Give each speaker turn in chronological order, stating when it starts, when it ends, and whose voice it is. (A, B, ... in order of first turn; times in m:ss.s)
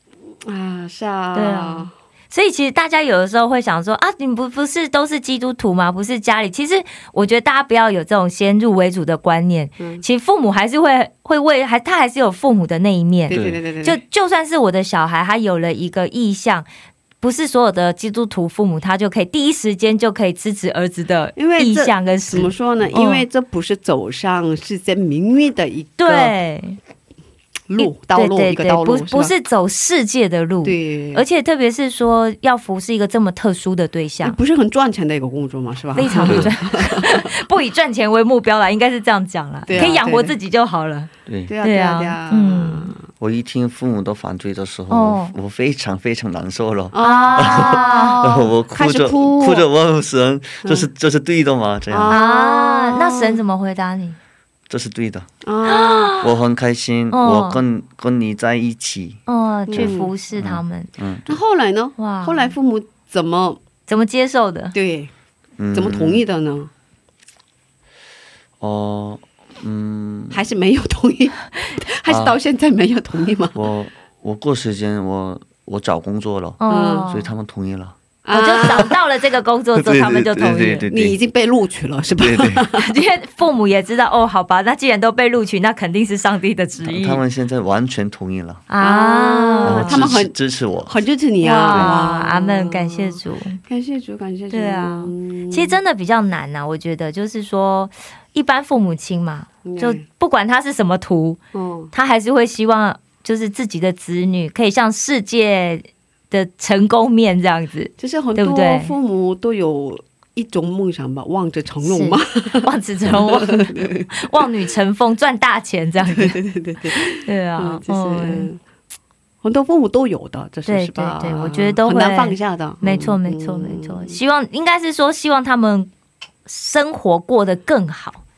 0:00.4-0:01.9 A
0:01.3-0:16.6 B
0:09.8-0:10.0 A
0:13.3-0:14.0 A
0:13.3-0:13.6 C
0:17.2-0:23.2 B
0:21.4-0:26.4 A
0:26.0-0:26.8 B
0:27.7-0:29.3 A
0:27.8-0:34.4 B
0:30.6-0:31.2 A
0:34.2-0:37.3 A
0:35.9-0:41.1 B
0:36.2-0:36.5 C
0:39.7-0:40.3 A
0:39.7-0:40.0 C
0:41.2-0:41.5 C
0:41.5-0:43.1 A
0:41.6-0:42.9 B
0:43.2-0:52.2 C
0:44.9-0:45.3 B
0:46.9-0:49.6 A
0:47.0-0:48.2 B
0:50.6-0:50.9 A
0:51.9-0:53.4 A
0:52.1-0:54.2 B
0:54.7-0:55.3 C
0:55.4-0:56.2 A
0:55.6-0:56.3 B
0:56.2-1:01.4 C
0:57.1-0:57.6 B
0:59.3-1:00.9 B
0:59.7-1:00.1 A
1:01.3-1:03.6 A
1:02.0-1:02.5 B
1:03.9-1:04.7 B
1:04.7-1:05.1 A
1:05.6-1:06.2 C
1:05.7-1:06.7 A
1:08.6-1:10.4 C
1:10.3-1:13.6 A
1:12.0-1:12.4 C
1:13.5-1:18.0 C
1:16.6-1:17.3 B
1:16.7-1:17.1 A
1:18.2-1:18.9 A
1:18.3-1:20.8 B
1:19.8-1:21.2 C
1:20.9-1:22.9 A
1:22.2-1:22.7 C
1:22.8-1:27.2 B
1:26.8-1:28.6 C
1:28.7-1:30.1 B
1:28.8-1:35.8 A
1:29.6-1:31.0 C
1:31.4-1:33.6 B
1:31.7-1:32.0 C
1:34.5-1:41.4 B
1:39.6-1:40.0 A
1:41.5-1:41.9 A
1:41.9-1:48.9 B
1:48.0-1:54.4 A
1:51.8-1:56.4 B
1:56.0-1:58.6 A
1:57.0-1:58.5 B
1:59.4-2:04.2 A
2:00.6-2:05.9 B
2:06.4-2:08.2 B